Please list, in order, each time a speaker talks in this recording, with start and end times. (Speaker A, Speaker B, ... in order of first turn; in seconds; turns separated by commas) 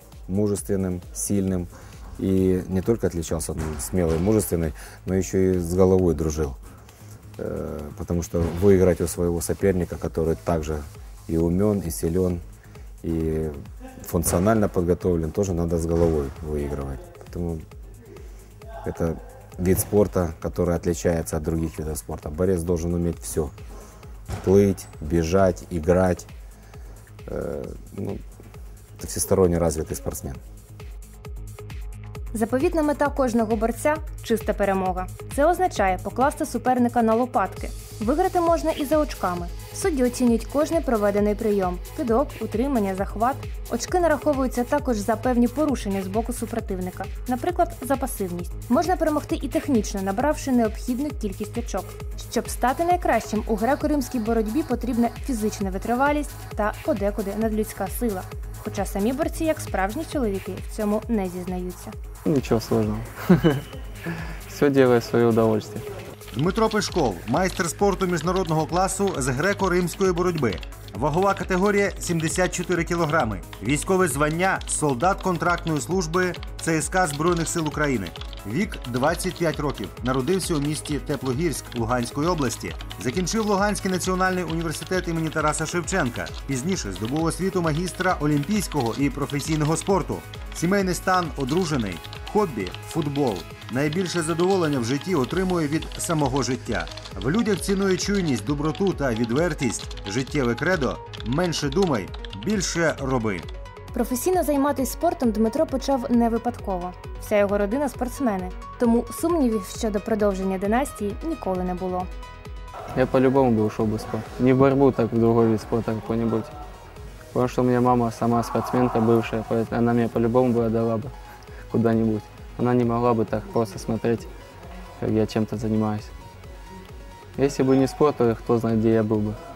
Speaker A: 0.3-6.6, Speaker A: 7.4-12.4, Speaker A: 13.0-17.6, Speaker A: 18.8-23.5, Speaker A: 24.4-26.3, Speaker A: 27.3-28.2, Speaker A: 29.0-30.4, Speaker B: 32.3-61.9, Speaker C: 62.3-63.6, Speaker C: 64.5-65.8, Speaker D: 66.3-103.5, Speaker B: 103.9-112.1, Speaker C: 113.0-116.5, Speaker C: 117.3-121.1, Speaker C: 121.7-124.3, Speaker C: 125.0-126.1, Speaker C: 127.4-129.4